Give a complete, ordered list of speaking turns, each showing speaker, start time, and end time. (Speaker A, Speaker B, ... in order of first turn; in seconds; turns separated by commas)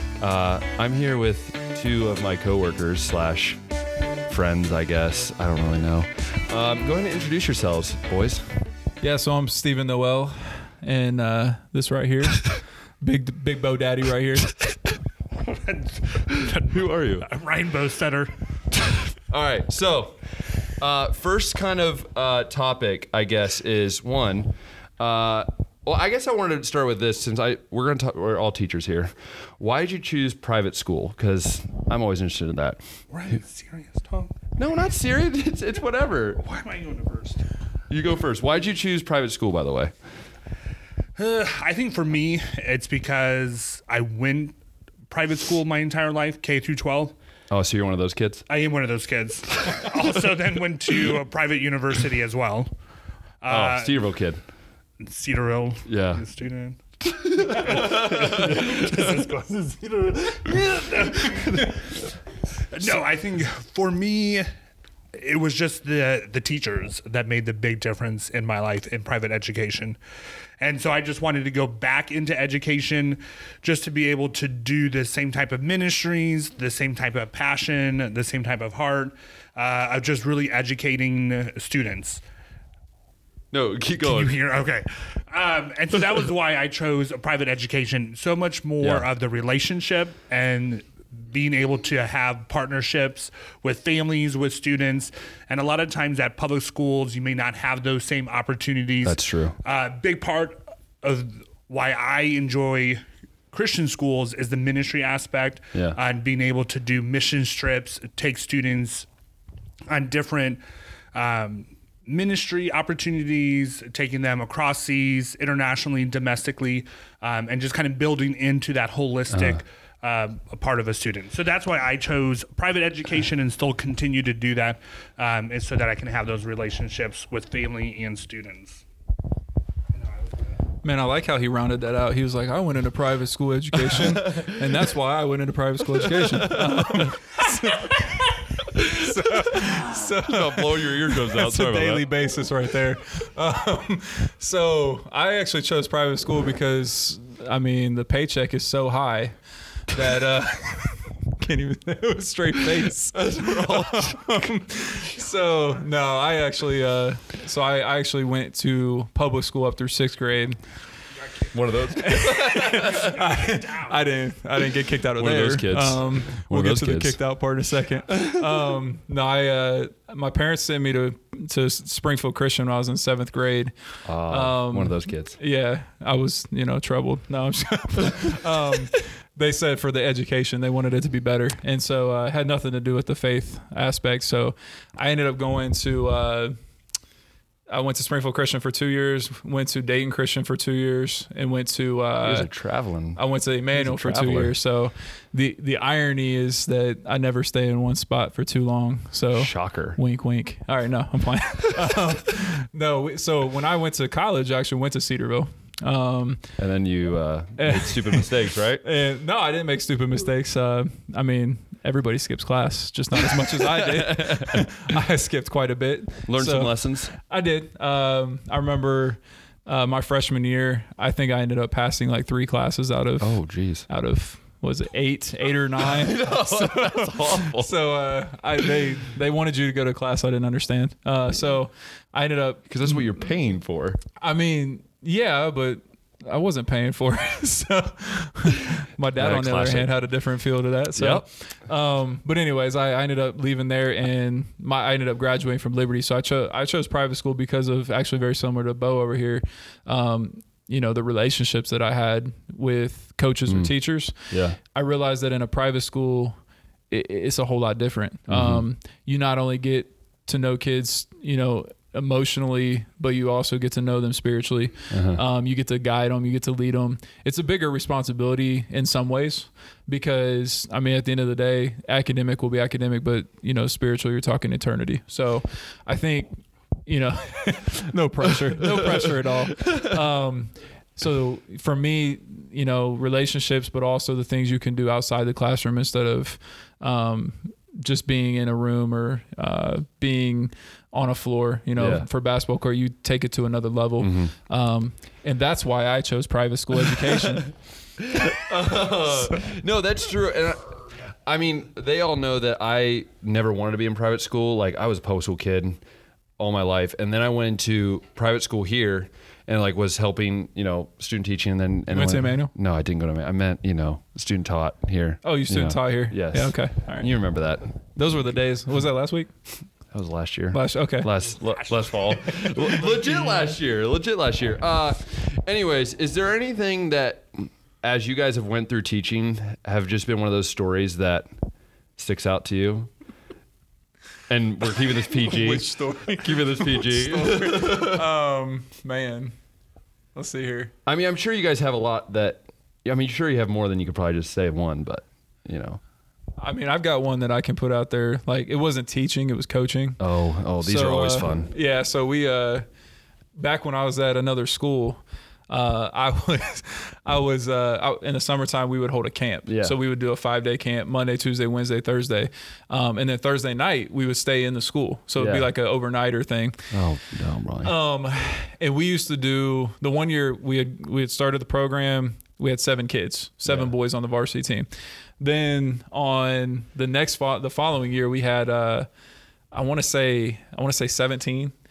Speaker A: 0.2-3.6, Speaker A: 4.3-8.5, Speaker B: 9.0-14.6, Speaker C: 15.4-18.3, Speaker A: 16.7-17.3, Speaker A: 19.3-20.2, Speaker A: 20.8-32.8, Speaker C: 33.1-34.4, Speaker A: 34.6-36.4, Speaker C: 36.4-37.5, Speaker A: 37.9-39.9, Speaker C: 41.2-44.6, Speaker C: 45.1-47.1, Speaker A: 47.5-48.5, Speaker C: 48.5-52.7, Speaker C: 53.4-54.1, Speaker A: 53.5-54.4, Speaker C: 55.0-62.0, Speaker A: 55.9-56.2, Speaker A: 57.4-59.3, Speaker A: 61.3-61.6, Speaker C: 62.7-64.5, Speaker C: 65.1-70.0, Speaker C: 70.6-82.2, Speaker A: 83.5-84.3, Speaker C: 84.0-109.1, Speaker A: 88.8-89.1, Speaker A: 99.0-99.6, Speaker C: 109.9-110.6, Speaker C: 111.1-128.8, Speaker A: 119.3-119.6, Speaker C: 130.0-130.3, Speaker B: 130.8-160.7, Speaker A: 133.9-134.5, Speaker A: 136.0-137.3, Speaker A: 138.7-142.1, Speaker A: 153.1-154.3, Speaker A: 161.5-162.8, Speaker B: 162.0-186.5, Speaker C: 162.5-164.0, Speaker A: 165.2-167.2, Speaker A: 174.0-175.4, Speaker B: 187.7-192.5, Speaker A: 192.2-193.2, Speaker B: 193.1-206.5, Speaker A: 193.7-194.5, Speaker A: 199.3-200.0, Speaker A: 206.6-208.8, Speaker B: 207.6-233.1, Speaker A: 213.2-214.7, Speaker A: 216.3-217.1, Speaker A: 223.2-223.9, Speaker A: 225.8-227.7, Speaker A: 232.7-234.0, Speaker B: 234.2-256.4, Speaker A: 239.2-239.9, Speaker A: 240.9-241.2, Speaker A: 253.5-254.6, Speaker B: 256.9-297.5, Speaker A: 258.3-258.6, Speaker A: 264.9-265.2, Speaker A: 278.5-279.9, Speaker A: 291.8-292.1, Speaker A: 294.0-294.3, Speaker A: 298.0-305.8, Speaker A: 306.4-317.6, Speaker B: 311.9-312.5, Speaker B: 315.2-317.1, Speaker B: 318.0-319.3, Speaker A: 319.9-331.3, Speaker B: 320.5-321.1, Speaker C: 321.4-322.7, Speaker B: 322.7-323.5, Speaker A: 332.0-332.9, Speaker A: 334.3-338.0, Speaker B: 335.1-339.4, Speaker B: 340.1-340.7, Speaker A: 340.9-345.8, Speaker B: 346.4-350.0, Speaker A: 350.0-351.5, Speaker B: 350.6-352.6, Speaker B: 353.4-366.7, Speaker A: 359.5-359.8, Speaker A: 365.2-365.5, Speaker A: 366.7-367.7, Speaker B: 367.6-378.9, Speaker A: 373.5-373.7, Speaker B: 379.5-381.5